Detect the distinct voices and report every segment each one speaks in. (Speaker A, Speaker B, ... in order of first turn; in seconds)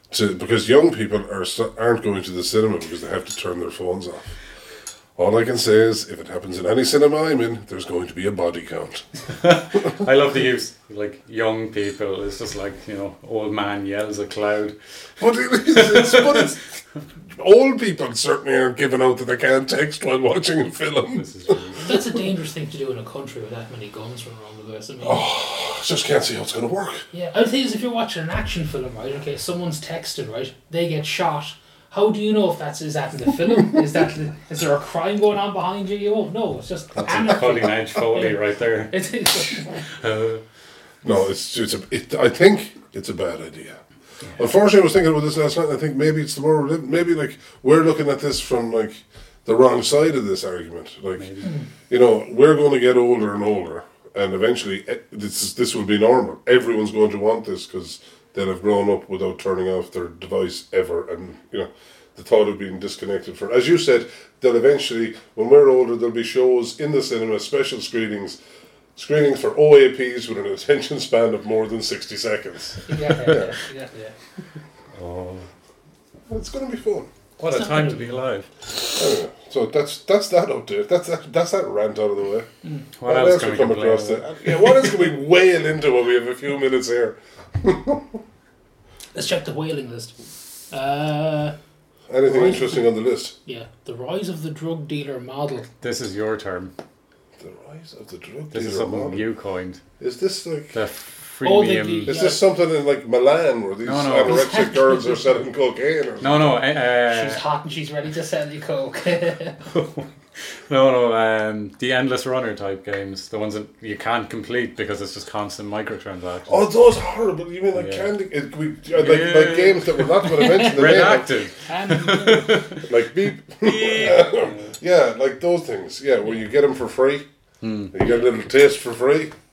Speaker A: 0.1-4.4, 5.2-9.1, 15.2-16.6, 17.4-21.6, 25.0-27.1, 41.0-43.8, 44.4-51.3, 51.9-68.4, 69.0-73.5, 76.3-77.1, 78.8-82.5, 83.1-88.2, 92.1-93.3, 97.4-99.2, 100.0-100.8, 102.1-106.6, 116.5-121.4, 122.8-127.3, 127.9-129.3
Speaker B: 9.4-14.8, 15.7-16.6, 21.1-21.9, 37.0-39.0, 40.0-40.4, 51.2-51.5, 74.9-75.5, 77.4-78.5, 83.0-84.7, 95.8-96.7, 98.5-99.8, 100.7-102.2, 103.8-104.5, 106.2-107.4, 109.7-116.7, 117.7-118.1, 118.9-122.9, 123.5-124.7, 127.6-128.0
Speaker C: 21.8-25.2, 27.1-39.7, 72.9-74.2, 77.5-78.1, 89.1-91.6, 92.2-92.9, 93.5-95.7, 101.4-102.4, 104.2-105.4, 107.1-109.6, 120.2-121.1, 121.6-122.7